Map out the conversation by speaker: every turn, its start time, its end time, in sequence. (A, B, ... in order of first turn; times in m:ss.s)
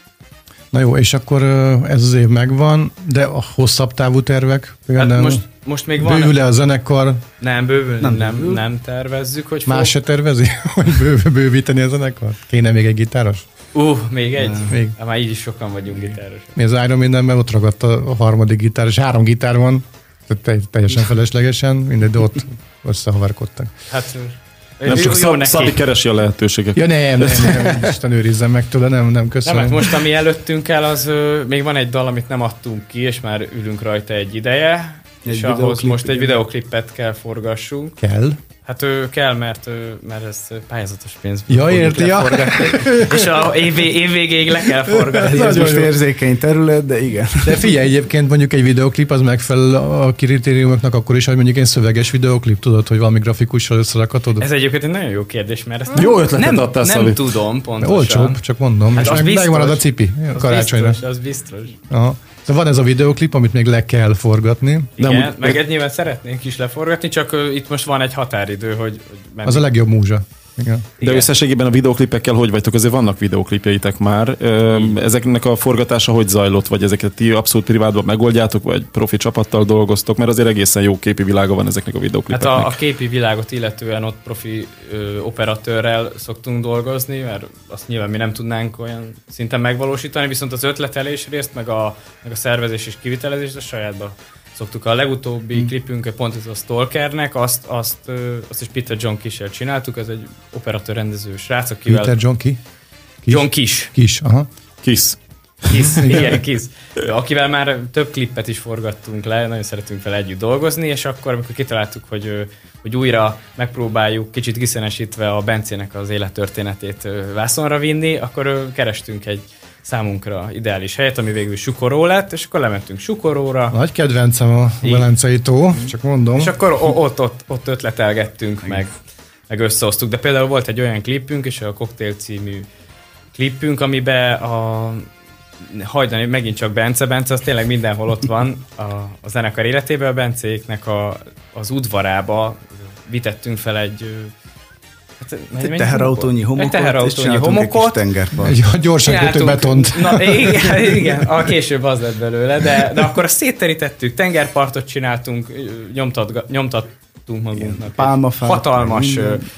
0:00.7-0:05.4 A
0:05.0-0:06.4 B
0:06.0-0:07.2 A
0:07.4-0:09.9 B
0:08.0-0:08.6 C
0:09.6-0:13.4 A
0:13.7-0:16.6 B
0:14.4-0:14.7 C
0:14.7-0:14.9 A
0:16.6-0:23.7 A
0:23.9-0:25.8 B
0:24.8-0:27.8 D
0:26.7-0:30.0 A
0:29.4-0:38.0 B
0:35.2-0:36.4 C
0:38.0-0:38.4 A
0:38.6-0:45.7 B
0:41.5-0:43.5 A
0:44.9-0:45.9 A
0:45.2-0:47.7 C
0:47.4-0:54.5 A
0:54.4-1:01.8 B
0:55.9-0:57.3 D
0:57.8-1:01.0 A
1:01.9-1:05.0 A
1:05.0-1:09.7 B
1:05.0-1:05.6 D
1:09.4-1:10.9 A
1:11.0-1:11.3 B
1:11.0-1:22.8 D
1:14.7-1:15.0 B
1:22.3-1:42.2 B
1:41.9-1:42.6 A
1:43.2-1:44.5 A
1:43.3-1:43.9 B
1:44.8-1:46.1 D
1:45.7-2:03.8 B
2:03.7-2:06.5 A
2:04.8-2:05.1 B
2:06.4-2:08.9 B
2:09.5-2:12.7 B
2:13.3-2:15.1 B
2:15.6-2:24.3 B
2:25.2-2:28.0 B
2:25.6-2:28.6 C
2:28.4-2:31.1 A
2:29.0-2:39.4 B
2:37.5-2:39.4 C